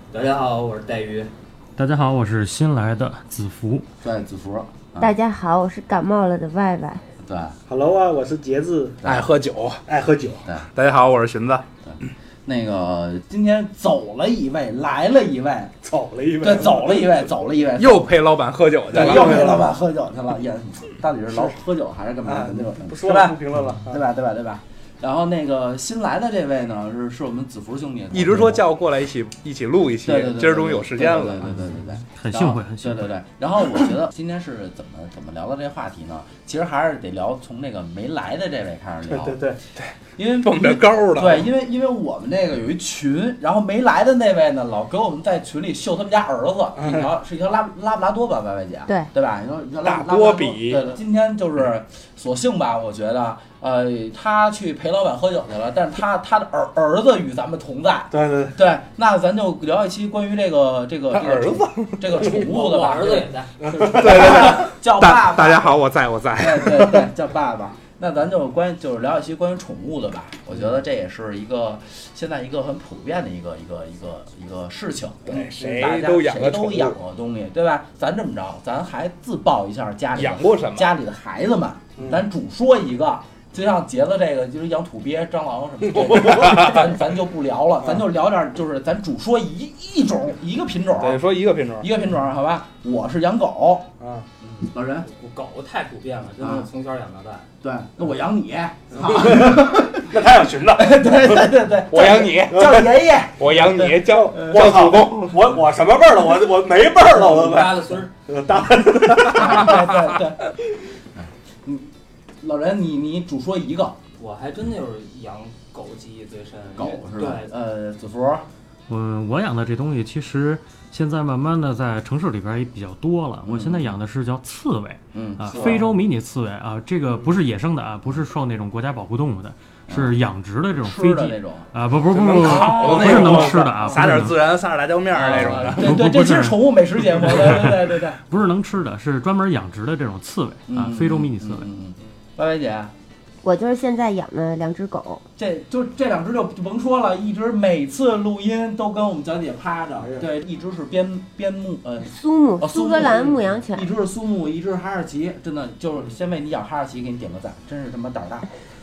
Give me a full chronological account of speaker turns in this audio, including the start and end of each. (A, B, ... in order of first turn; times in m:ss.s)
0:00.1-0:01.3 A
0:01.8-0:03.9 B
0:04.0-0:05.1 C
0:05.0-0:07.0 D
0:07.2-0:07.6 C
0:07.7-0:09.0 E
0:09.0-0:09.8 F
0:09.9-0:10.5 E
0:10.8-0:11.7 F
0:11.8-0:15.8 C
0:15.8-0:17.1 E
0:16.4-0:18.1 C
0:17.8-0:19.6 F
0:18.9-0:28.6 C
0:19.0-0:19.6 E
0:22.2-0:24.0 E
0:28.1-0:31.6 F
0:30.0-0:39.4 C
0:32.2-0:33.1 B
0:39.1-0:39.6 E
0:39.8-0:41.5 F
0:40.2-1:03.3 C
0:46.8-0:47.1 E
0:49.8-0:50.8 F
0:58.1-0:58.6 E
1:01.2-1:02.0 F
1:02.1-1:04.0 A
1:03.6-1:04.0 E
1:03.9-1:05.8 C
1:03.9-1:07.1 F
1:06.4-1:31.2 C
1:15.3-1:17.0 F
1:20.2-1:20.9 F
1:31.0-1:31.9 F
1:31.8-1:35.1 C
1:34.0-1:34.3 E
1:35.1-1:37.5 A
1:36.4-1:36.7 C
1:37.6-1:40.2 C
1:39.0-1:41.5 E
1:40.8-1:44.8 C
1:41.9-1:42.7 F
1:43.4-1:45.5 F
1:44.5-1:49.7 E
1:47.1-1:48.1 A
1:47.3-1:47.6 C
1:49.3-1:50.4 C
1:51.2-1:51.9 C
1:52.4-1:54.0 C
1:54.2-1:57.5 A
1:56.8-1:58.5 C
1:58.9-2:14.4 B
2:03.4-2:03.9 C
2:05.1-2:06.0 C
2:10.8-2:11.7 C
2:12.1-2:15.9 F
2:12.4-2:14.1 C
2:15.1-2:15.8 A
2:15.2-2:18.2 C
2:15.6-2:21.7 B
2:20.7-2:22.9 C
2:23.4-2:25.2 D
2:25.4-2:38.5 C
2:32.0-2:33.9 D